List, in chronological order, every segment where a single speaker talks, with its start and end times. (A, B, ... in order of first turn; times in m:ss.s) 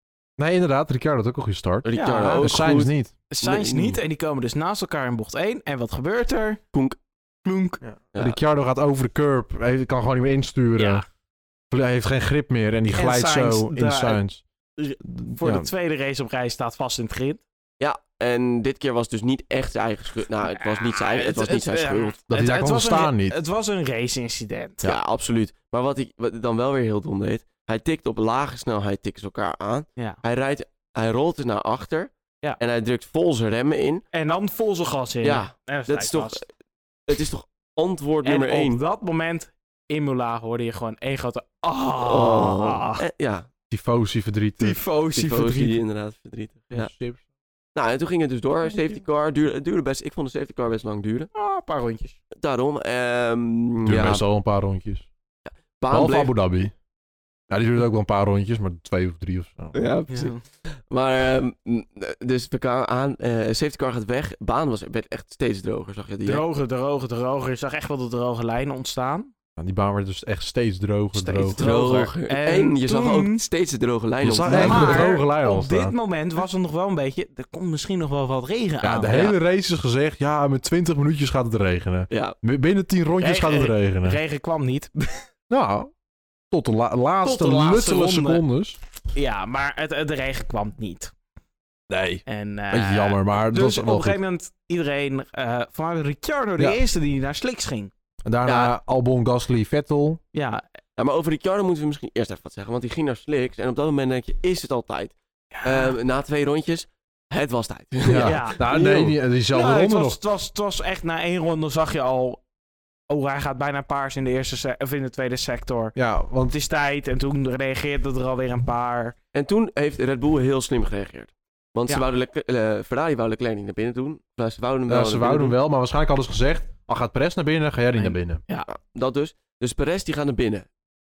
0:00.4-0:01.9 A
0:01.8-0:04.0 B
0:01.9-0:02.5 C
0:02.4-0:03.1 A
0:03.3-0:06.6 C
0:07.4-0:07.8 C
0:07.9-0:11.0 A
0:08.1-0:08.4 B
0:10.8-0:11.0 C
0:11.7-0:14.4 A
0:12.9-0:14.2 C
0:14.8-0:17.4 C
0:15.0-0:15.7 A
0:17.8-0:22.2 B
0:20.5-0:24.9 C
0:22.3-0:23.4 A
0:24.8-0:34.0 B
0:34.1-0:36.4 C
0:35.2-0:36.4 B
0:37.1-0:38.8 B
0:38.2-0:43.0 C
0:42.0-0:43.5 B
0:43.7-0:44.8 A
0:44.6-0:45.8 C
0:45.1-0:46.9 B
0:46.7-0:47.2 A
0:47.7-0:51.3 B
0:51.3-0:52.2 C
0:52.4-0:54.2 B
0:53.8-0:55.1 A
0:55.8-0:56.3 B
0:55.9-0:56.7 A
0:57.5-0:59.7 A
0:59.7-1:06.4 B
1:00.1-1:00.4 C
1:06.2-1:09.3 C
1:09.6-1:11.7 A
1:11.1-1:13.4 C
1:11.6-1:15.0 B
1:14.2-1:15.9 A
1:14.4-1:19.4 C
1:18.8-1:24.2 A
1:22.1-1:22.4 B
1:23.2-1:25.3 C
1:25.5-1:25.9 A
1:26.5-1:28.8 A
1:27.2-1:28.4 C
1:29.1-1:31.1 C
1:31.9-1:34.2 A
1:32.2-1:37.9 C
1:38.2-1:40.2 A
1:38.4-1:38.7 B
1:40.3-1:40.6 C
1:41.0-1:49.1 B
1:45.5-1:45.9 C
1:48.0-1:50.2 A
1:48.2-1:48.6 C
1:49.5-1:52.4 C
1:53.1-1:59.1 C
1:56.0-1:56.5 A
1:59.3-2:05.6 B
2:04.9-2:08.4 A
2:08.0-2:08.7 C
2:08.6-2:10.7 B